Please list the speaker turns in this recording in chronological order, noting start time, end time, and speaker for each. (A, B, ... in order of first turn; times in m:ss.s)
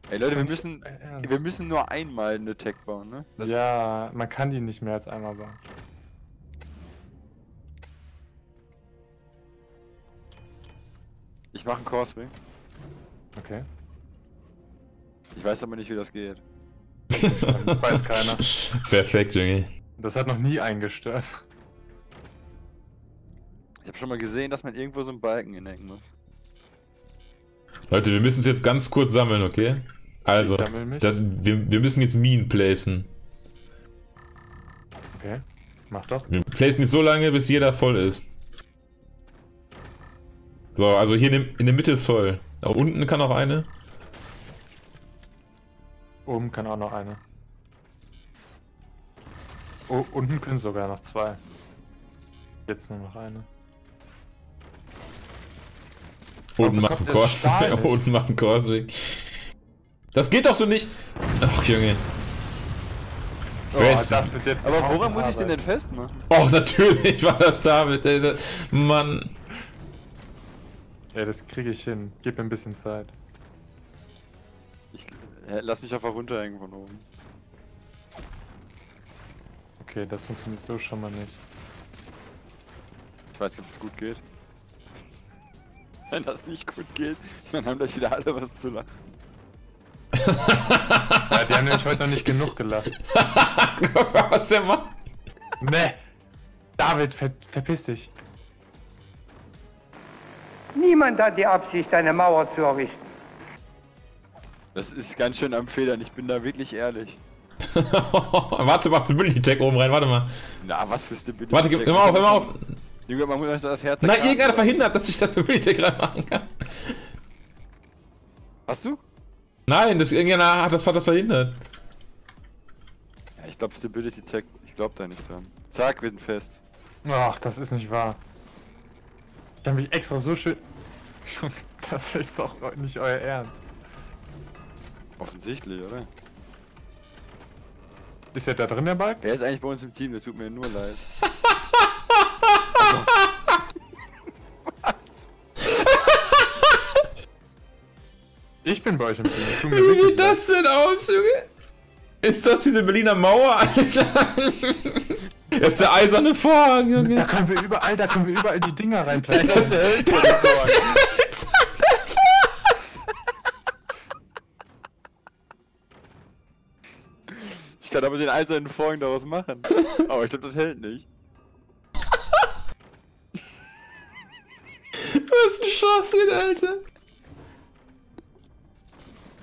0:00.1-0:03.6 A
0:00.2-0:01.4 B
0:03.4-0:05.6 B
0:11.5-0:12.4 A
0:13.4-0:13.7 B
0:15.4-0:16.4 A
0:17.1-0:18.4 B
0:17.2-0:19.7 C
0:20.0-0:21.4 B
0:23.8-0:26.1 A
0:27.9-0:33.1 C
0:30.4-0:31.1 B
0:35.1-0:36.3 B
0:36.3-0:38.3 C
0:40.8-0:43.7 C
0:46.2-0:47.2 B
0:49.9-0:51.4 B
0:52.7-0:53.5 B
0:56.6-0:59.3 C
0:56.6-0:58.0 B
1:00.1-1:02.0 C
1:03.7-1:05.6 B
1:03.7-1:04.3 C
1:04.6-1:06.3 A
1:06.3-1:09.3 C
1:11.1-1:13.1 B
1:14.9-1:17.1 A
1:19.8-1:21.4 B
1:23.3-1:24.2 A
1:26.1-1:29.0 A
1:30.2-1:31.4 C
1:31.3-1:32.9 B
1:33.1-1:35.0 C
1:35.6-1:36.0 B
1:36.8-1:38.1 B
1:40.8-1:43.1 D
1:44.8-1:47.2 A
1:47.7-1:50.3 C
1:50.6-1:52.5 A
1:51.5-1:52.7 C
1:53.1-1:54.8 A
1:54.0-1:56.9 C
1:58.7-1:59.0 A
1:59.7-2:01.6 C
2:03.4-2:06.6 A
2:07.0-2:08.2 B
2:09.6-2:10.6 B
2:11.3-2:13.7 B
2:15.2-2:16.1 A
2:18.3-2:19.2 B
2:19.2-2:21.0 A
2:21.5-2:23.3 C
2:22.8-2:23.1 A
2:24.7-2:25.3 A
2:25.6-2:27.0 C
2:28.6-2:30.4 B
2:29.5-2:31.5 C
2:32.2-2:37.3 C
2:36.9-2:40.6 B
2:39.3-2:41.1 A
2:39.3-2:42.4 C
2:47.3-2:51.1 A
2:55.0-2:56.8 C